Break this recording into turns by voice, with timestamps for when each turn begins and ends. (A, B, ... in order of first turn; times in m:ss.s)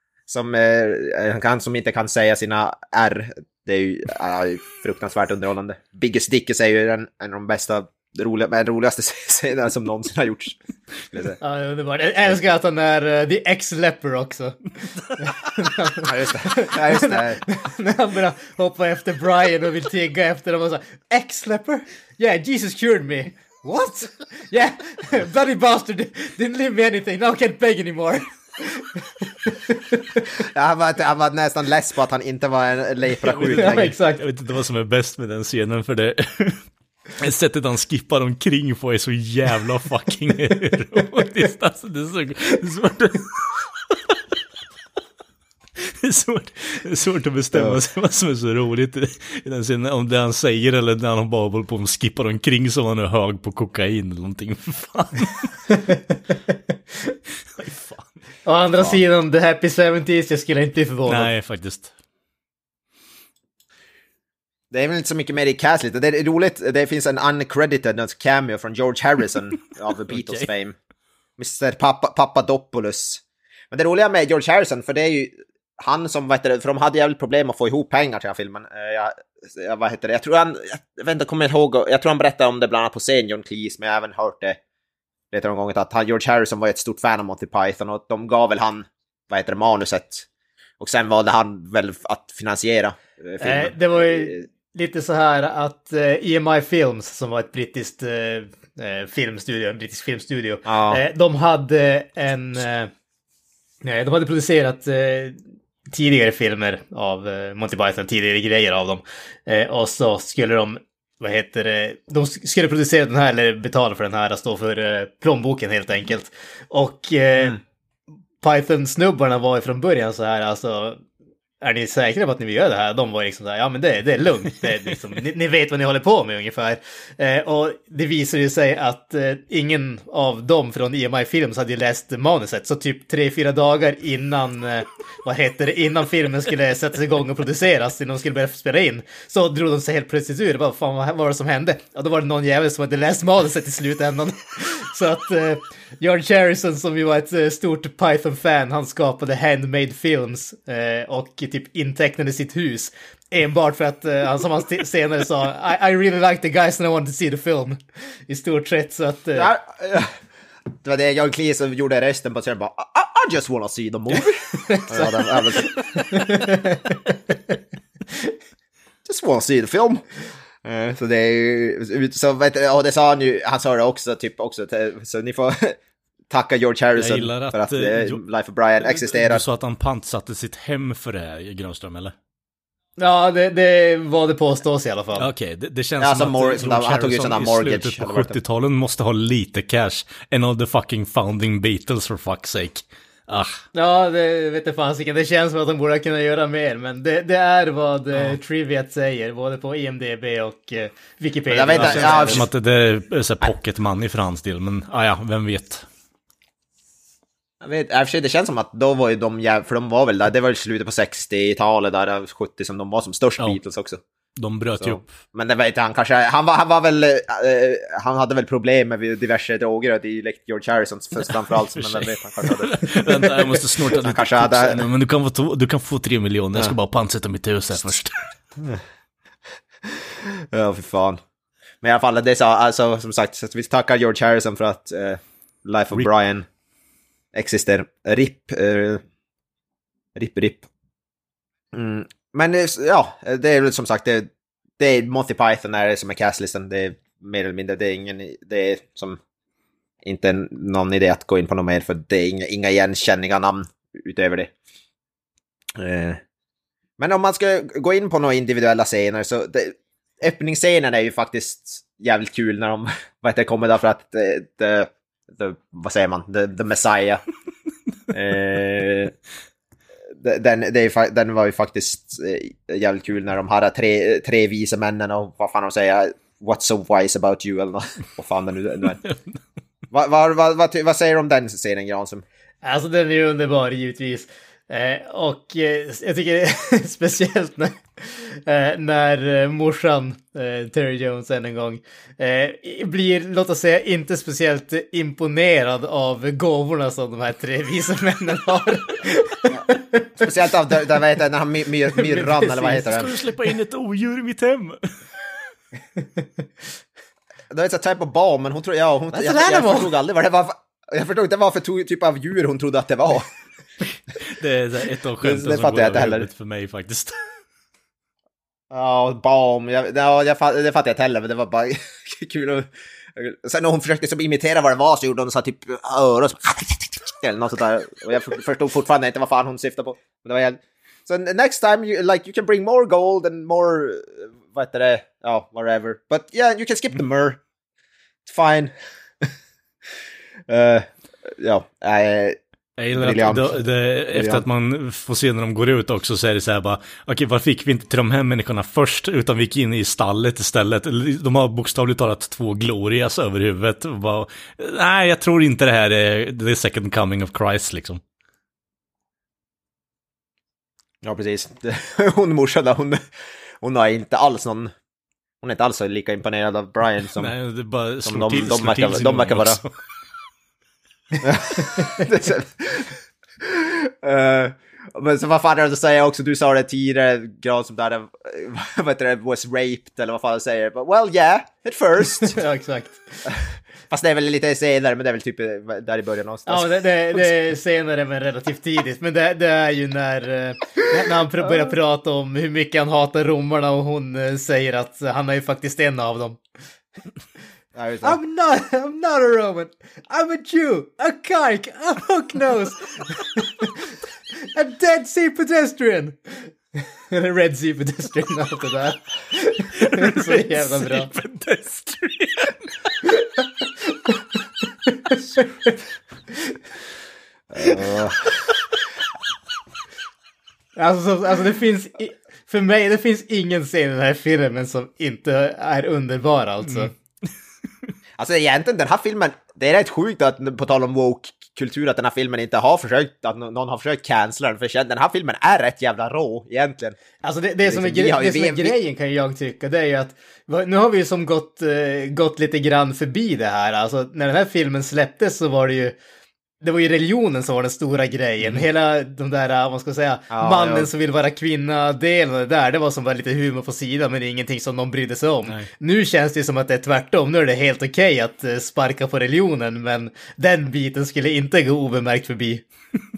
0:00.3-0:11.4 A
0:11.4-0:14.6 B
0:15.2-0:30.2 B
0:16.0-0:17.4 A
0:30.4-0:34.0 A
0:33.2-0:36.6 C
0:33.5-0:34.2 B
0:37.2-0:44.1 C
0:45.8-0:55.6 C
0:55.7-0:56.5 B
0:57.6-0:58.1 C
0:58.4-1:01.3 B
1:01.1-1:01.9 C
1:04.7-1:10.8 A
1:10.1-1:10.5 C
1:11.4-1:24.6 A
1:25.3-1:30.2 A
1:30.8-1:34.4 A
1:33.4-1:42.9 B
1:40.6-1:41.0 A
1:43.8-1:57.6 B
1:58.4-2:01.0 B
2:01.6-2:39.5 B
2:39.3-2:40.1 A
2:40.7-2:46.0 A
2:44.6-2:47.4 B
2:49.0-2:50.0 A
2:50.6-2:55.8 A
2:56.3-2:59.4 A
2:57.0-2:58.2 C
2:58.8-3:02.1 C
3:03.0-3:05.3 B
3:05.2-3:13.6 C
3:06.0-3:08.4 A
3:13.7-3:22.4 B
3:21.5-3:22.5 A
3:21.8-3:25.8 C
3:27.6-3:34.0 A
3:34.4-3:35.1 C
3:34.8-3:44.8 A
3:41.7-3:48.2 C
3:48.6-3:48.8 A
3:49.9-3:51.2 A
3:51.8-3:56.5 A
3:57.3-3:59.0 A
4:00.1-4:00.7 A
4:01.7-4:09.2 A
4:10.0-4:14.5 A
4:15.8-4:16.2 A
4:17.0-4:27.2 A
4:28.1-4:29.1 A
4:30.2-4:39.0 A
4:39.9-4:42.2 A
4:42.6-5:00.1 B
5:00.2-5:03.1 A
5:02.0-5:02.8 B
5:02.7-5:04.9 C
5:07.5-5:13.3 A
5:09.1-5:09.9 B
5:14.2-5:17.2 C
5:15.2-5:16.3 A
5:18.7-5:37.4 A
5:38.2-5:39.3 A
5:40.5-5:42.4 A
5:42.8-5:58.0 C
5:42.9-5:44.4 A
6:01.0-6:03.0 A
6:03.6-6:04.7 A
6:05.4-6:07.3 A
6:07.2-6:09.7 C
6:08.0-6:09.6 A
6:11.2-6:22.4 A
6:22.2-6:23.3 B
6:23.2-6:27.2 A
6:26.5-6:36.4 B
6:37.7-6:38.2 A
6:38.0-6:51.1 B
6:49.8-6:52.6 C
6:53.0-6:54.2 B
6:54.9-6:55.8 B
6:56.3-6:56.6 B
6:57.5-6:58.3 A
7:00.8-7:06.9 B
7:08.2-7:17.0 A
7:17.2-7:25.9 B
7:17.6-7:18.8 A
7:26.6-7:42.6 B
7:30.3-7:30.9 A